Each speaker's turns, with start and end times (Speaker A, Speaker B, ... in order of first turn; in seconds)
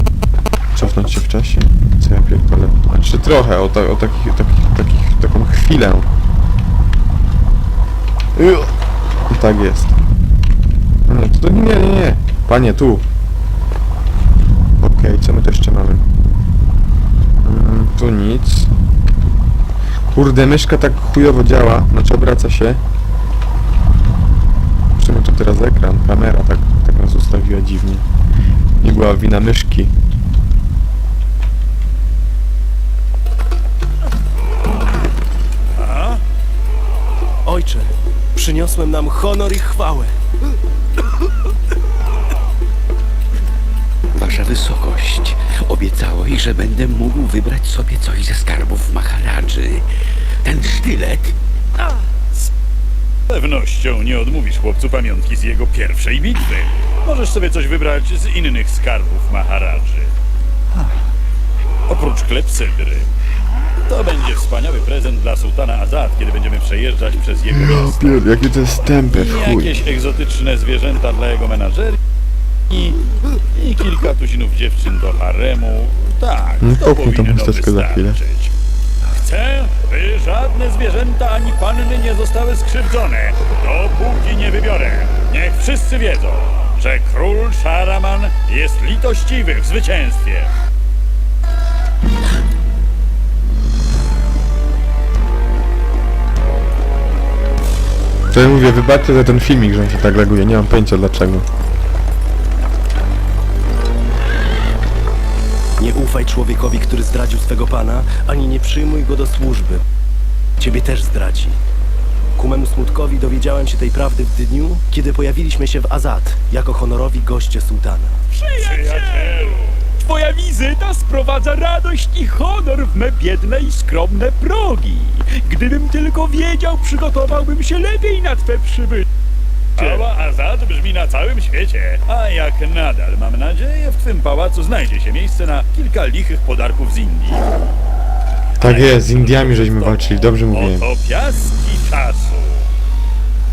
Speaker A: 0.8-6.1, 8.3-8.7, 9.3-10.0, 11.1-13.0, 14.8-16.0, 17.4-18.7, 20.1-22.8, 24.9-28.0, 28.8-29.9, 67.5-69.9, 76.6-78.2, 98.3-101.5, 138.6-140.8
Speaker B: 35.8-36.2, 53.3-60.1, 61.9-63.1, 63.9-68.2, 69.0-72.0, 72.7-73.0, 73.5-78.5, 79.1-90.5, 118.6-119.7, 129.8-137.4, 138.6-142.6
Speaker C: 37.4-40.2, 105.8-109.8, 110.6-111.6, 112.3-118.2
Speaker D: 44.1-49.9, 50.4-51.4
Speaker E: 118.3-129.0